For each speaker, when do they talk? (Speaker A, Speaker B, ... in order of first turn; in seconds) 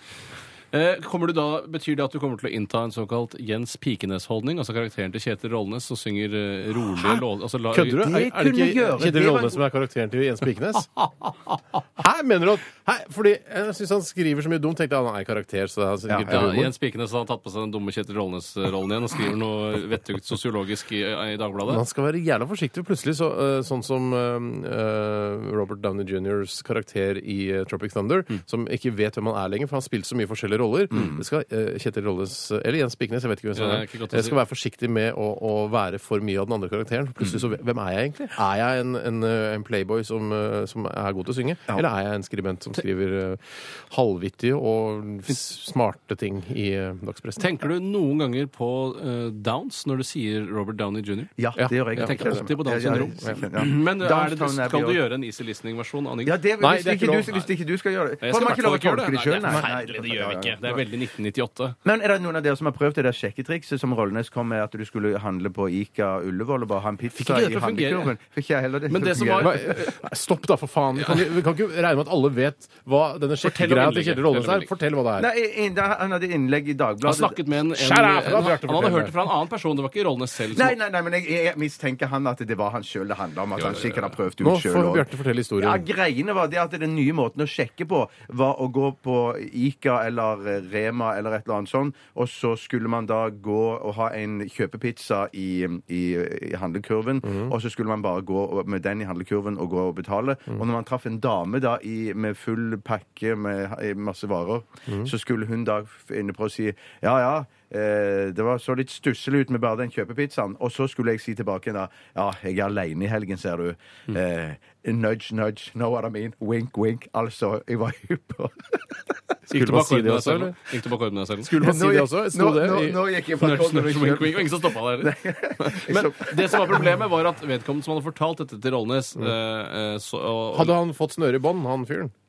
Speaker A: 0.7-8.1, 16.3-21.8, 33.5-34.4, 47.4-51.3, 51.9-56.4, 58.2-61.8, 67.2-68.1, 68.9-69.9, 71.0-71.2, 73.4-74.7, 77.0-80.8, 83.6-84.1, 119.5-121.5, 123.3-130.7
Speaker B: 7.7-10.9, 11.9-16.7, 21.6-47.5, 51.6-52.4, 56.6-57.3, 69.4-75.3, 77.7-79.3, 84.4-85.8, 97.2-97.5, 119.5-120.6, 121.4-123.0, 130.5-132.1
Speaker C: 8.0-9.6, 16.1-16.4, 30.9-31.2, 51.4-55.0, 56.2-60.8, 61.8-69.6, 75.2-77.4, 80.5-85.1, 85.6-118.8, 121.5-126.8